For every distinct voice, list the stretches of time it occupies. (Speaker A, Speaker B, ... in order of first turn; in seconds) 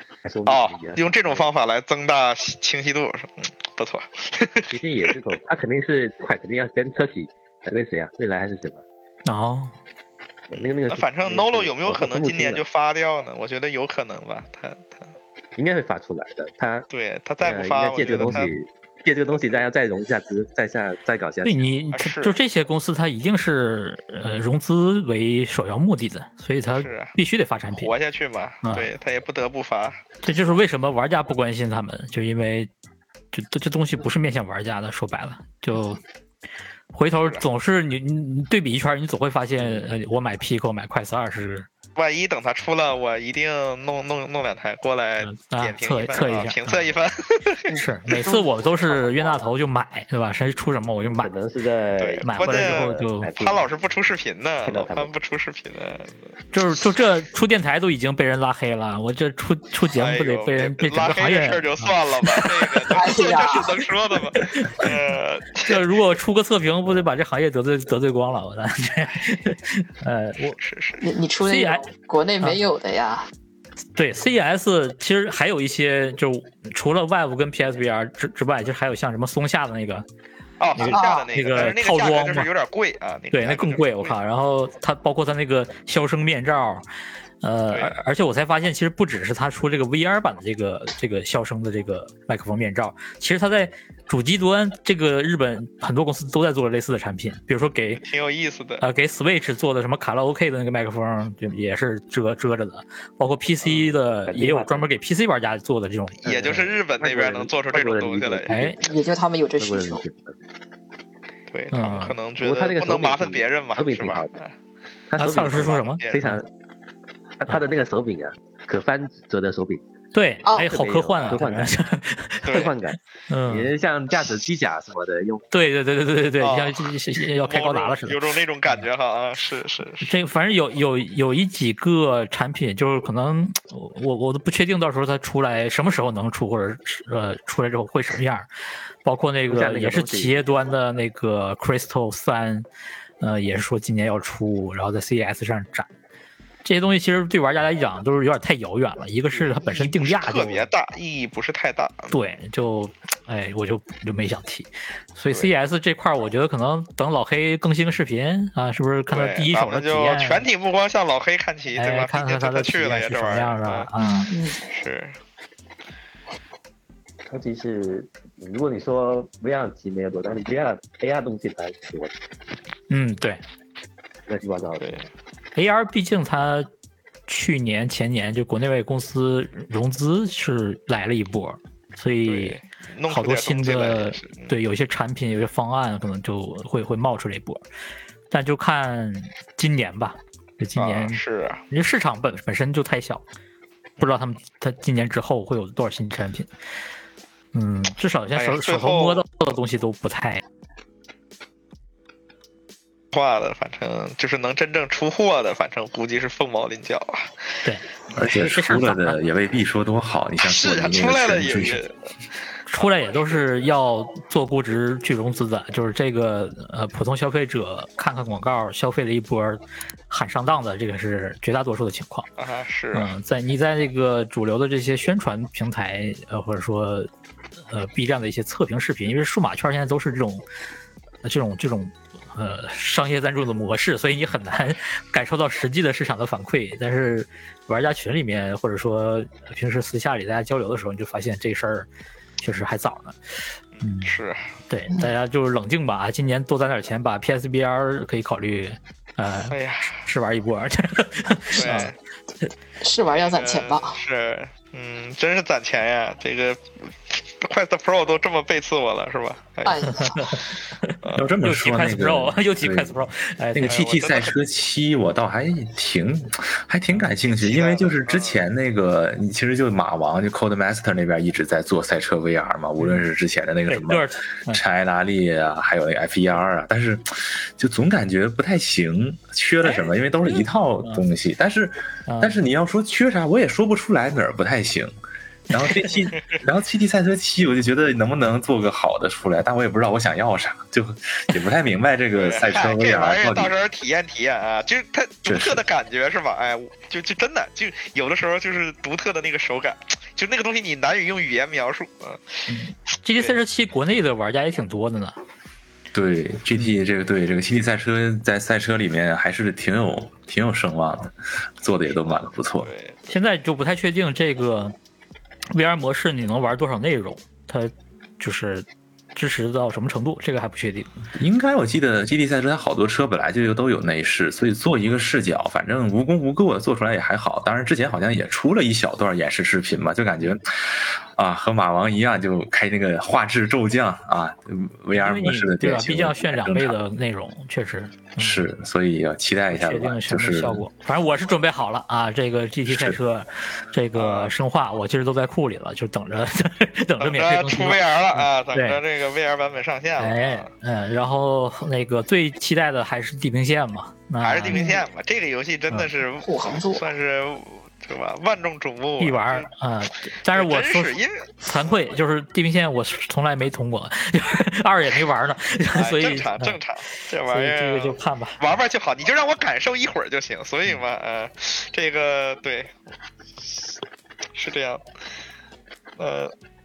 Speaker A: 0.2-1.5, 4.7-8.8, 10.5-12.6, 15.6-16.9, 17.4-21.6, 49.0-49.3, 51.1-53.7, 54.6-55.1, 103.6-104.9, 106.2-110.4, 112.4-114.4, 115.1-116.5, 117.4-119.8, 120.6-121.7, 122.5-125.5, 139.5-140.7, 167.3-172.2, 174.3-175.0
Speaker B: 0.5-5.1, 10.5-15.0, 16.9-18.5, 21.9-22.4, 26.7-27.1, 27.7-30.0, 42.0-47.8, 52.0-56.2, 60.0-65.9, 70.6-71.1, 80.6-84.2, 87.7-88.0, 98.0-98.8, 106.2-108.5, 111.5-114.5, 115.3-116.3, 122.5-122.7, 126.4-130.1, 149.6-152.2, 159.1-163.9, 164.6-165.2, 174.8-175.1, 182.2-184.5, 190.8-191.6, 198.4-199.2, 203.1-207.3, 210.4-211.9, 212.8-213.4, 222.4-223.1, 243.8-244.5, 249.5-250.0, 251.5-251.9, 253.2-260.2, 261.0-261.3, 263.7-264.4, 267.3-268.4, 292.1-302.2, 312.1-313.1, 344.0-344.3, 347.0-350.5, 354.2-359.5, 360.3-361.2, 365.7-372.7, 374.4-374.8, 376.0-376.3
Speaker C: 9.3-9.8, 21.4-27.9, 30.2-32.7, 33.3-36.0, 36.9-41.7, 45.2-46.9, 47.7-51.3, 52.2-53.3, 56.5-63.2, 64.4-65.0, 65.6-70.6, 71.4-71.8, 74.0-80.1, 80.8-82.5, 83.3-86.8, 87.4-98.0, 98.8-106.6, 108.5-108.8, 111.7-112.2, 115.2-116.4, 120.1-122.7, 123.3-123.7, 125.5-128.2, 130.0-138.5, 139.0-142.7, 143.2-145.9, 146.7-150.7, 152.1-160.4, 161.8-164.3, 172.9-173.4, 175.6-176.7, 177.3-187.6, 188.3-193.2, 194.0-196.5, 197.5-200.4, 207.6-209.2, 212.7-222.3, 222.9-227.1, 227.7-230.4, 231.2-241.9, 242.4-243.2, 243.8-244.2, 244.7-251.9, 259.9-263.8, 273.7-274.6, 280.3-281.1, 282.1-282.4, 302.5-305.2, 313.1-314.8, 315.5-321.0, 335.0-338.5, 339.5-348.8, 350.0-354.7, 359.0-366.6, 367.3-368.4
Speaker D: 62.9-63.7, 71.0-73.3, 80.9-81.3, 108.8-110.0, 164.0-164.6, 252.8-254.0, 259.7-260.4, 354.5-354.9, 356.2-356.8
Speaker E: 208.1-211.8, 261.2-263.0, 263.5-284.9, 285.5-293.5, 295.2-295.6, 305.9-312.7, 321.2-336.8, 338.2-340.7, 342.7-343.0